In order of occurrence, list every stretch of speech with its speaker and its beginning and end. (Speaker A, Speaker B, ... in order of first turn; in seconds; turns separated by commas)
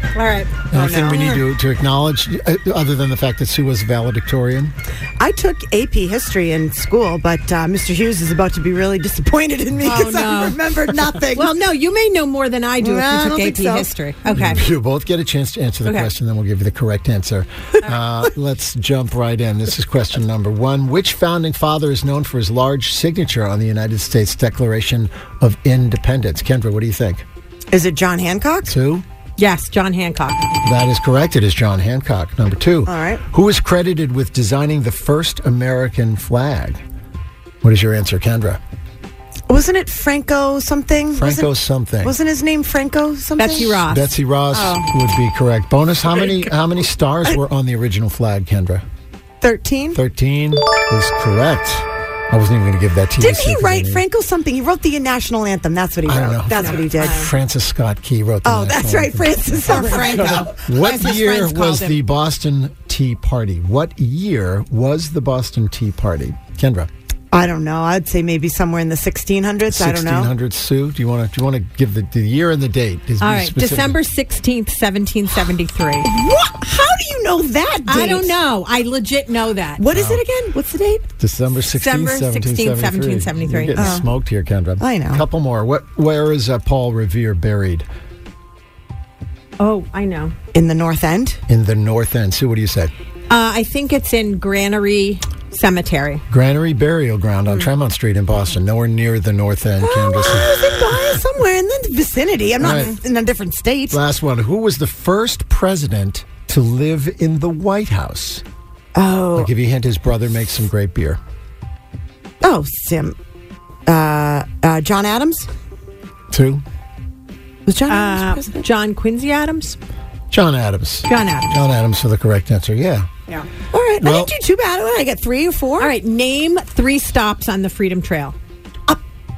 Speaker A: 0.1-1.4, Speaker B: 0.7-4.7, Speaker C: 0.7-1.4, Speaker C: 5.2-11.5, Speaker A: 9.8-10.6, Speaker A: 11.3-14.6, Speaker C: 12.8-13.9, Speaker B: 14.3-27.2, Speaker A: 15.8-16.1, Speaker C: 27.7-28.8, Speaker B: 28.7-29.1, Speaker A: 29.4-30.6, Speaker B: 30.6-36.8, Speaker C: 32.9-33.2, Speaker B: 37.6-38.6, Speaker C: 39.5-41.5, Speaker B: 41.2-42.1, Speaker C: 42.0-43.8, Speaker A: 43.4-44.1, Speaker B: 43.7-48.8, Speaker C: 44.5-44.9, Speaker C: 49.4-50.0, Speaker B: 49.9-54.0, Speaker C: 53.2-57.3, Speaker B: 56.0-66.9, Speaker A: 56.6-57.3, Speaker C: 58.4-60.6, Speaker A: 59.7-62.0, Speaker C: 67.3-70.3, Speaker B: 69.7-74.0, Speaker A: 73.2-76.1, Speaker C: 76.0-78.4, Speaker A: 77.9-79.8, Speaker C: 79.8-81.1, Speaker B: 79.9-80.2, Speaker B: 81.2-87.9, Speaker A: 81.7-84.0, Speaker C: 83.7-84.1, Speaker C: 84.8-85.2, Speaker A: 89.6-90.3, Speaker C: 90.5-91.4, Speaker B: 91.5-92.9, Speaker A: 93.3-96.2, Speaker B: 96.3-100.7, Speaker C: 99.8-104.0, Speaker B: 102.6-103.0, Speaker B: 103.9-108.4, Speaker C: 109.0-109.5, Speaker B: 109.4-111.2, Speaker C: 112.4-113.2, Speaker C: 113.9-115.5, Speaker B: 116.3-116.6, Speaker C: 117.7-118.7, Speaker A: 117.9-119.8, Speaker B: 120.3-123.1, Speaker A: 121.1-121.6, Speaker C: 123.7-125.9, Speaker B: 124.0-124.3, Speaker A: 125.8-128.4